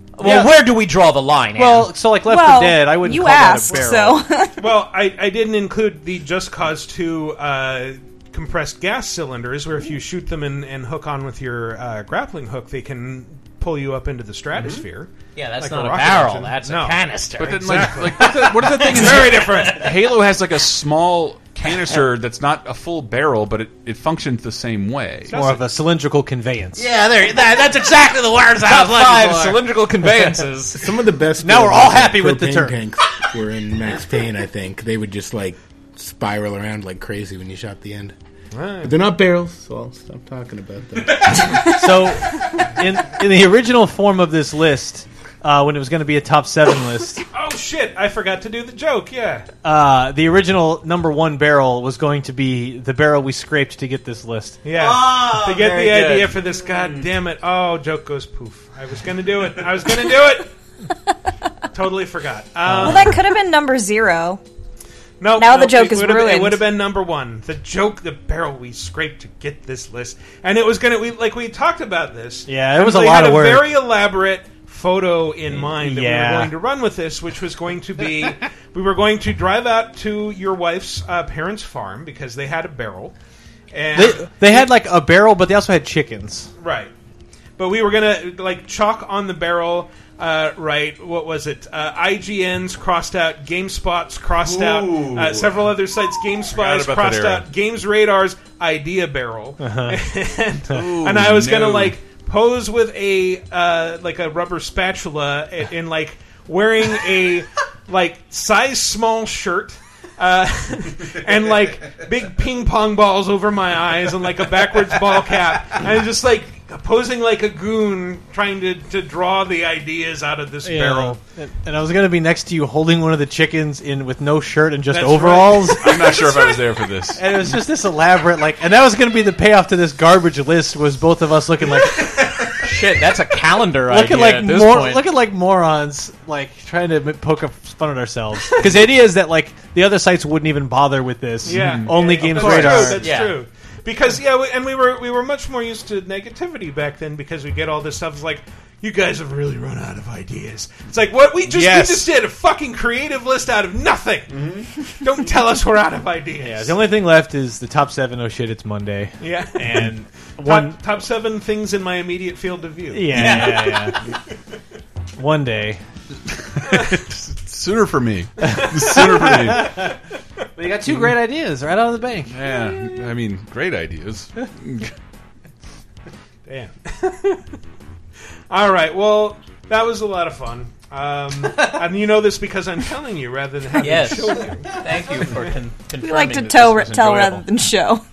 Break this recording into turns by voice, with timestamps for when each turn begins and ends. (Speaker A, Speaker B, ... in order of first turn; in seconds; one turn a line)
Speaker A: 0.2-2.0
Speaker B: 0.2-0.7
Speaker B: 1.5-4.2
Speaker C: 2.2-4.6
Speaker D: 4.6-19.9
Speaker E: 14.5-14.8
Speaker A: 15.3-19.9
Speaker E: 17.4-25.4
Speaker D: 25.3-25.6
Speaker B: 25.3-30.5
Speaker A: 26.8-27.7
Speaker A: 28.6-30.9
Speaker F: 30.7-38.1
Speaker B: 31.4-32.8
Speaker D: 38.5-38.9
Speaker F: 38.8-41.7
Speaker B: 41.6-47.2
Speaker D: 47.3-49.5
Speaker B: 49.6-54.6
Speaker D: 54.6-60.5
Speaker A: 54.7-56.4
Speaker D: 61.7-63.2
Speaker B: 62.6-63.2
Speaker C: 62.8-64.4
Speaker D: 65.2-83.1
Speaker C: 65.3-66.7
Speaker B: 72.5-73.8
Speaker B: 75.7-76.5
Speaker D: 83.7-84.7
Speaker B: 83.9-86.5
Speaker D: 86.6-86.9
Speaker D: 87.6-121.2
Speaker E: 94.4-95.7
Speaker E: 96.5-97.5
Speaker B: 99.6-100.0
Speaker E: 100.7-101.9
Speaker B: 120.6-126.2
Speaker D: 124.9-126.3
Speaker E: 125.8-127.5
Speaker B: 127.2-132.4
Speaker A: 132.5-135.1
Speaker B: 133.8-143.1
Speaker D: 141.4-156.8
Speaker E: 141.5-142.5
Speaker A: 142.3-143.4
Speaker B: 151.5-152.1
Speaker E: 154.3-154.7
Speaker B: 156.4-160.8
Speaker D: 159.2-163.6
Speaker B: 162.9-164.0
Speaker A: 163.1-163.9
Speaker B: 165.2-165.8
Speaker E: 166.3-169.8
Speaker B: 168.8-169.9
Speaker B: 170.6-172.4
Speaker E: 170.8-171.2
Speaker E: 172.3-174.9
Speaker D: 176.4-177.4
Speaker D: 178.5-184.7
Speaker A: 183.8-187.5
Speaker C: 186.0-188.0